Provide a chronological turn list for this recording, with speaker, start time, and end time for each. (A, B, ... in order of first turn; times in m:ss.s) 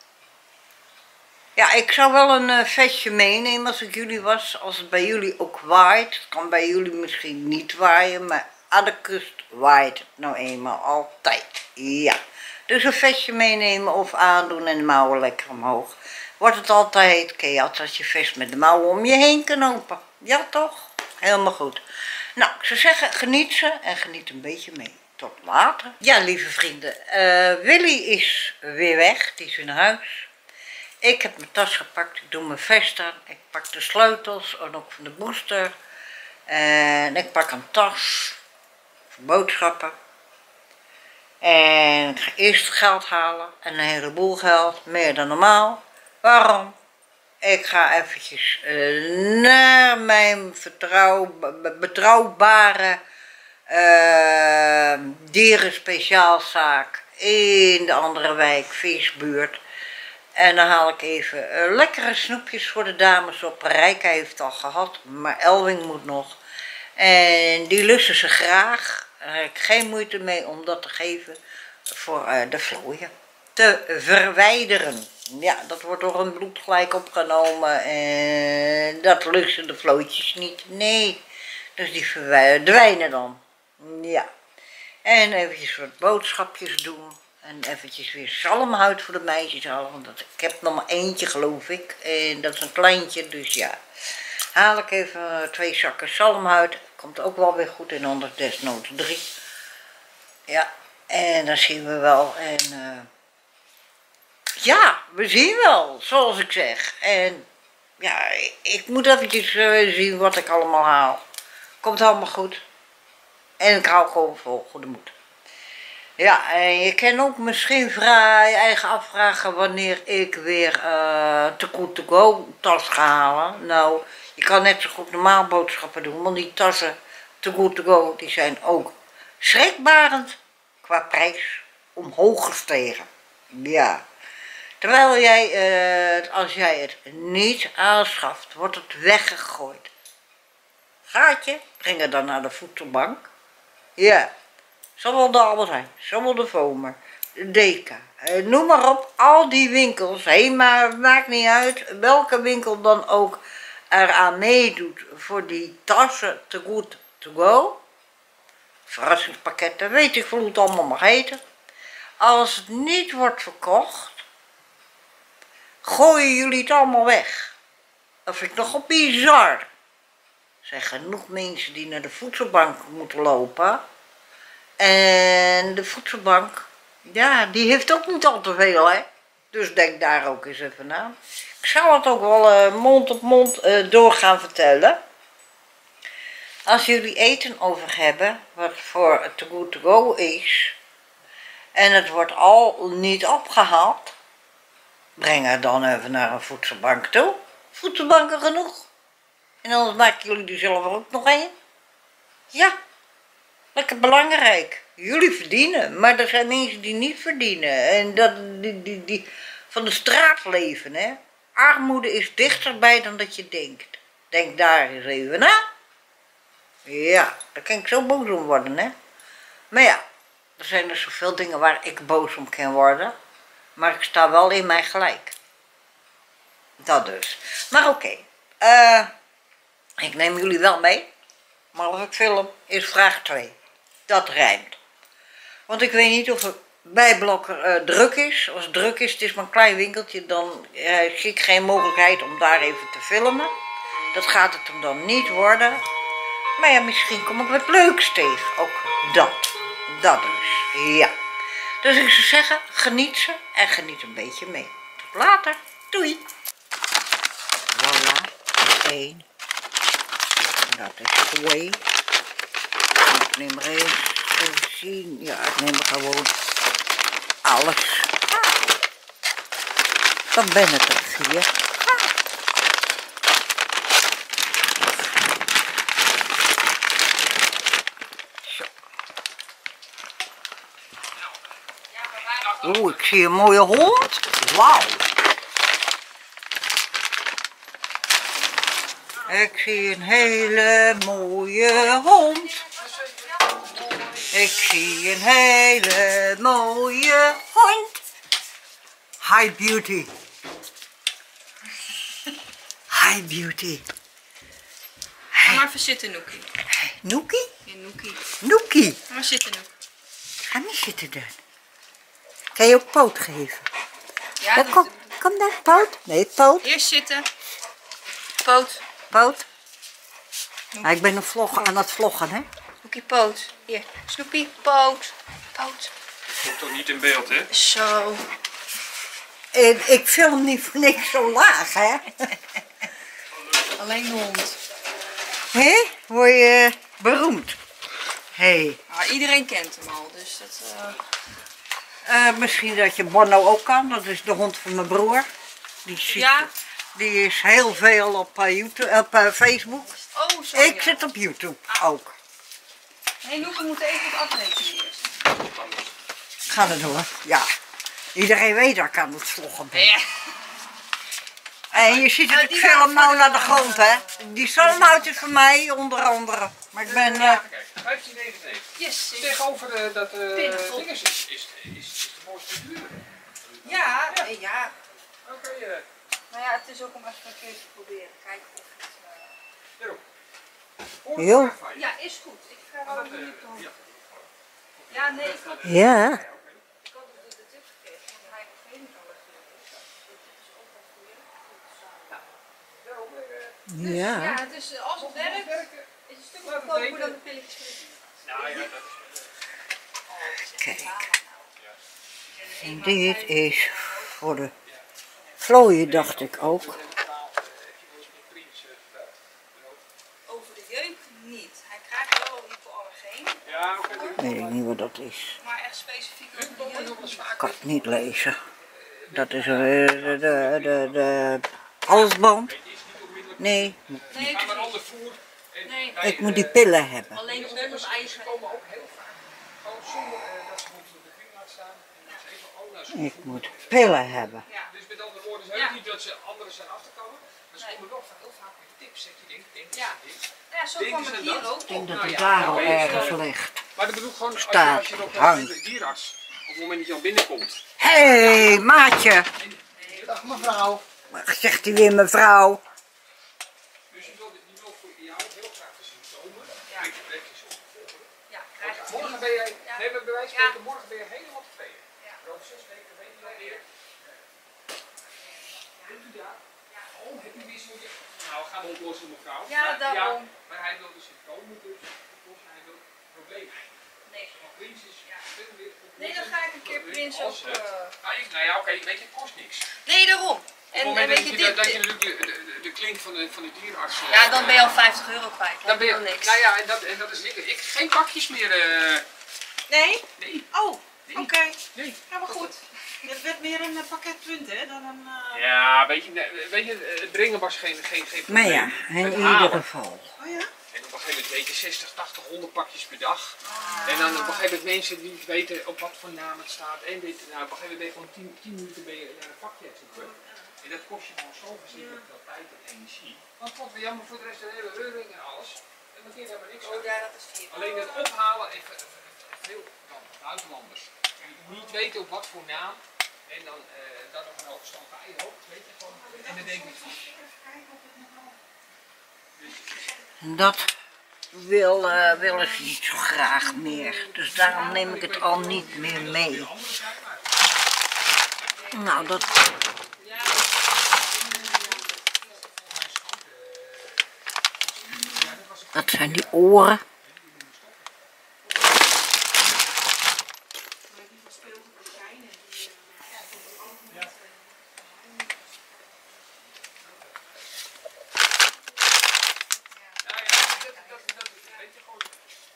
0:01.6-0:21.8 A
0:22.4-0:30.3 A
0:31.0-0:35.7 A
0:36.5-0:38.4 A
0:39.1-0:40.0 A
0:41.4-0:46.8 A
0:47.4-0:53.0 A
0:53.7-0:59.6 A
1:00.4-1:06.4 A
1:07.0-1:11.4 A
1:11.9-1:21.2 A
1:21.8-1:24.3 A
1:25.0-1:33.8 A
1:34.6-1:39.3 A
1:40.5-1:43.1 A
1:44.6-1:47.5 A
1:48.0-1:51.2 A
1:51.8-1:52.6 A
1:53.6-1:55.1 A
1:56.2-2:14.0 A
2:14.8-2:19.9 A
2:21.1-2:23.3 A
2:24.0-2:24.3 A
2:25.0-2:37.8 A
2:38.9-2:41.4 A
2:42.2-2:44.2 A
2:45.8-2:47.6 A
2:48.3-2:49.7 A
2:50.6-2:53.8 A
2:54.8-3:05.0 A
3:06.7-3:10.8 A
3:11.8-3:14.2 A
3:15.2-3:18.9 A
3:19.6-3:21.5 A
3:23.7-3:35.6 A
3:36.9-3:38.9 A
3:39.7-3:40.0 A
3:40.6-3:43.1 A
3:43.8-3:45.4 A
3:46.8-3:49.1 A
3:50.0-3:51.1 A
3:51.7-3:53.6 A
3:54.1-3:54.8 A
3:55.7-4:03.5 A
4:04.1-4:05.8 A
4:06.6-4:11.1 A
4:11.8-4:16.2 A
4:17.7-4:19.3 A
4:20.6-4:21.8 A
4:23.0-4:26.3 A
4:27.4-4:28.6 A
4:30.3-4:32.1 A
4:38.4-4:38.7 A
4:41.9-4:42.7 B
4:42.6-4:45.1 A
4:49.3-4:52.6 A
4:52.6-4:54.4 B
4:52.8-4:53.1 C
4:54.3-4:58.0 A
4:59.2-5:00.1 A
5:02.9-5:03.8 A
5:05.3-5:05.7 A
5:05.4-5:06.5 B
5:06.7-5:07.5 A
5:07.6-5:08.3 B
5:08.4-5:09.0 A
5:09.1-5:09.7 B
5:10.5-5:11.4 A
5:12.6-5:13.7 A
5:14.4-5:15.1 B
5:14.5-5:16.7 A
5:16.6-5:17.3 B
5:18.4-5:18.8 B
5:19.1-5:19.5 A
5:20.8-5:22.5 A
5:22.8-5:25.9 B
5:26.4-5:27.5 C
5:27.5-5:28.3 B
5:29.5-5:32.4 A
5:33.7-5:34.6 B
5:35.5-5:37.6 A
5:38.4-5:38.8 A
5:38.9-5:41.0 B
5:42.1-5:45.3 A
5:45.8-5:50.0 A
5:46.1-5:46.5 B
5:50.0-5:51.1 B
5:50.5-5:52.2 A
5:53.2-5:55.2 B
5:55.4-5:55.9 C
5:56.5-5:57.5 A
5:58.2-6:00.0 A
5:59.7-6:00.3 B
6:01.7-6:07.4 A
6:01.7-6:05.2 B
6:06.9-6:14.3 C
6:08.8-6:09.4 B
6:10.3-6:10.9 B
6:13.6-6:14.7 B
6:15.2-6:15.9 C
6:16.3-6:19.4 B
6:19.8-6:20.0 C
6:21.0-6:21.9 C
6:21.2-6:21.6 A
6:21.7-6:23.7 B
6:22.8-6:26.6 C
6:24.9-6:25.7 B
6:25.6-6:26.2 A
6:26.8-6:32.2 B
6:32.6-6:33.6 C
6:33.7-6:34.4 A
6:33.8-6:38.7 B
6:35.0-6:35.9 C
6:36.4-6:37.2 C
6:38.2-6:39.3 C
6:40.1-6:41.5 B
6:40.5-6:41.1 A
6:42.3-6:44.2 B
6:42.6-6:44.5 A
6:45.4-6:46.8 A
6:45.5-6:49.8 C
6:50.3-6:54.2 B
6:53.4-6:54.6 C
6:54.2-6:55.4 A
6:55.4-6:57.2 B
6:56.3-7:01.4 C
6:57.4-6:58.4 A
6:59.1-7:02.5 A
7:02.5-7:23.2 C
7:03.4-7:04.4 A
7:04.1-7:04.8 B
7:05.6-7:06.0 B
7:06.0-7:07.2 A
7:07.1-7:08.4 B
7:12.9-7:14.5 A
7:14.5-7:14.7 B
7:15.5-7:15.8 B
7:17.6-7:17.8 B
7:19.7-7:20.0 B
7:20.5-7:23.2 B
7:21.7-7:23.6 A
7:23.8-7:31.1 C
7:24.4-7:25.6 A
7:27.8-7:29.3 A
7:29.8-7:30.2 B
7:30.2-7:32.6 A
7:33.9-7:44.2 C
7:38.3-7:40.6 B
7:43.2-7:43.6 B
7:45.2-7:45.9 B
7:45.6-7:53.6 C
7:49.5-7:50.3 B
7:54.0-7:54.4 B
7:54.3-7:59.8 C
7:56.0-7:58.0 B
7:59.8-8:01.8 B
8:00.7-8:04.8 C
8:04.1-8:06.4 B
8:05.6-8:09.1 C
8:09.7-8:11.6 D
8:10.2-8:10.5 C
8:11.0-8:12.0 C
8:12.1-8:15.4 D
8:12.3-8:12.6 B
8:15.3-8:19.6 C
8:18.3-8:20.1 A
8:20.2-8:20.5 D
8:20.7-8:47.1 C
8:23.4-8:24.5 B
8:30.0-8:30.5 B
8:36.6-8:38.1 B
8:46.0-8:48.4 D
8:49.4-8:49.8 C
8:50.2-8:50.7 A
8:51.3-8:56.5 A
8:53.7-8:57.3 C
8:58.5-8:59.4 C
8:58.6-8:59.2 B
8:58.7-8:59.3 A
9:00.0-9:02.2 B
9:01.4-9:01.9 C
9:02.6-9:04.1 C
9:04.7-9:06.4 C
9:05.7-9:06.8 A
9:07.0-9:07.9 C
9:10.9-9:16.0 B
9:16.8-9:17.1 C
9:20.0-9:22.2 C
9:20.6-9:20.8 B